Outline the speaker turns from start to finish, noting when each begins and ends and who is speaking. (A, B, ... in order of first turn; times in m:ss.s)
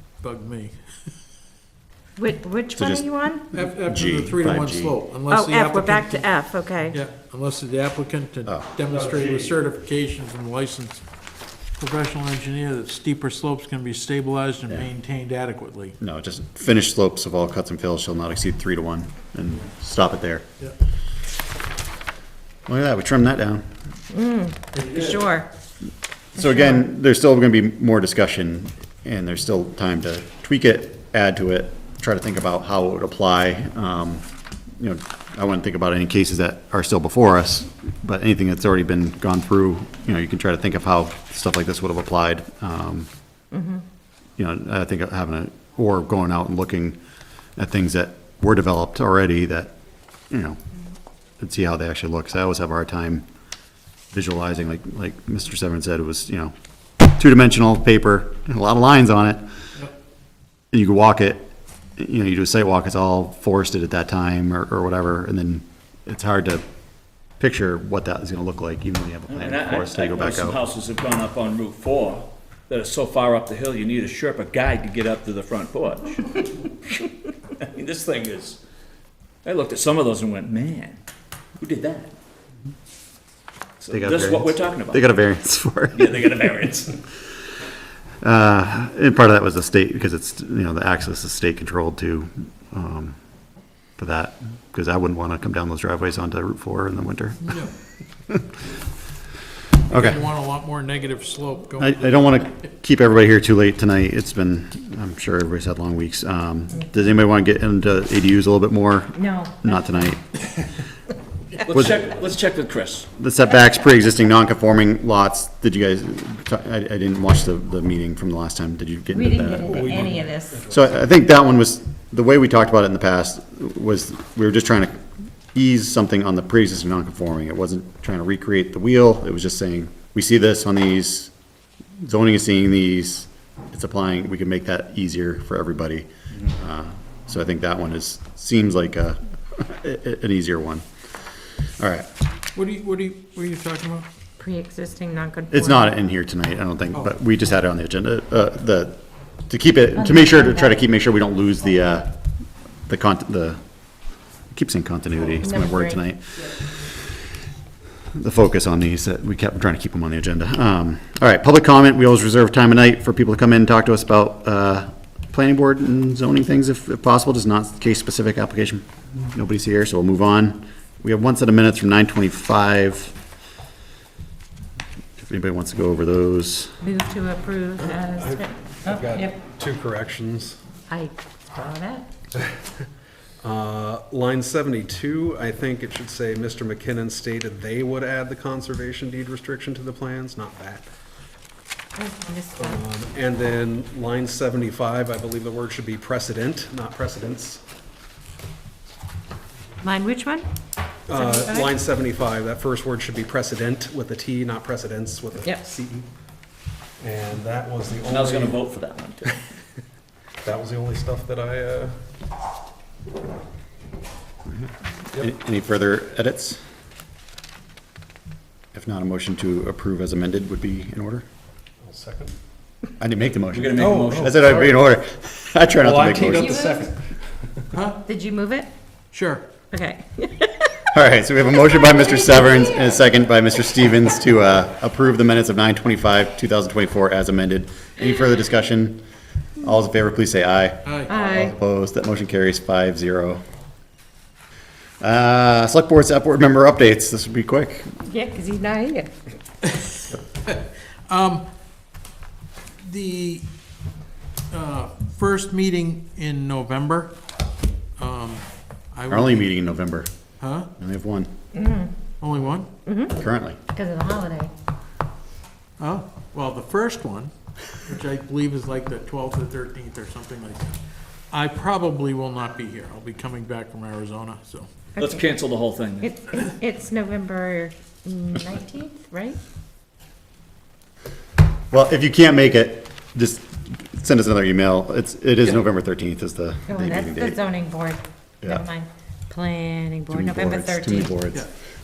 0:00.2-0:00.8 A
0:02.2-0:03.4 B
0:02.8-0:05.0 C
0:03.5-0:06.2 A
0:05.3-0:07.0 B
0:06.9-0:11.0 A
0:08.5-0:08.7 C
0:09.1-0:09.5 D
0:11.8-0:16.0 A
0:16.0-0:20.5 C
0:22.7-0:23.6 C
0:24.1-0:25.5 B
0:24.7-0:25.1 A
0:26.4-0:34.2 C
0:26.4-0:26.8 B
0:34.8-0:43.1 C
0:43.5-0:43.8 B
0:44.4-0:47.0 C
0:47.6-0:49.7 C
0:50.3-0:50.6 C
0:51.4-0:53.2 C
0:54.1-0:56.5 C
0:57.2-0:59.4 C
1:00.7-1:06.6 C
1:07.4-1:10.6 C
1:09.3-1:18.6 E
1:19.4-1:21.0 E
1:21.6-1:22.1 E
1:23.8-1:25.1 E
1:23.9-1:26.3 C
1:25.9-1:27.0 E
1:28.2-1:33.2 C
1:34.0-1:37.5 C
1:37.4-1:37.7 A
1:39.9-1:40.2 C
1:39.9-1:42.4 A
1:41.8-1:50.2 C
1:49.2-1:49.6 B
1:51.6-1:53.1 E
1:51.7-1:52.1 C
1:53.2-2:00.1 C
1:59.1-2:00.7 B
1:59.7-2:00.9 D
2:00.7-2:05.0 C
2:05.5-2:11.3 C
2:12.0-2:20.8 C
2:21.8-2:22.1 C
2:22.5-2:24.0 A
2:24.4-2:25.9 B
2:25.5-2:32.1 C
2:30.0-2:30.8 B
2:32.9-2:33.6 C
2:34.5-2:37.1 C
2:35.4-2:36.0 B
2:38.1-2:53.1 C
2:55.2-2:56.7 C
2:56.8-2:59.3 B
2:57.8-3:00.6 D
3:00.9-3:02.0 B
3:03.4-3:10.8 D
3:12.0-3:12.8 B
3:12.6-3:17.6 D
3:19.8-3:20.4 B
3:21.1-3:26.1 D
3:21.1-3:21.7 B
3:25.4-3:25.7 B
3:27.0-3:28.7 D
3:28.0-3:29.4 E
3:30.4-3:31.9 D
3:34.5-3:36.6 C
3:38.7-3:41.2 C
3:41.8-3:42.3 D
3:43.0-3:46.7 C
3:43.5-3:44.4 E
3:43.8-3:44.7 D
3:45.8-3:47.7 D
3:46.3-3:46.8 B
3:47.7-3:48.0 A
3:48.0-3:48.7 B
3:49.1-3:49.4 A
3:49.7-3:50.9 B
3:50.9-3:59.0 C
3:59.6-4:03.4 C
4:00.8-4:01.2 A
4:01.1-4:01.5 B
4:05.0-4:07.9 C
4:08.0-4:09.1 B
4:09.6-4:11.4 A
4:12.8-4:13.5 A
4:14.5-4:17.2 A
4:18.0-4:19.5 A
4:19.1-4:20.1 C
4:20.4-4:20.7 A
4:20.8-4:21.3 C
4:21.5-4:21.9 B
4:22.2-4:22.7 A
4:22.8-4:23.2 B
4:23.2-4:23.6 C
4:23.7-4:24.5 B
4:25.8-4:30.8 A
4:31.3-4:34.7 A
4:35.0-4:35.2 B
4:35.0-4:36.1 E
4:36.0-4:39.4 B
4:41.7-4:47.4 C
4:46.7-4:51.1 B
4:50.1-4:51.4 C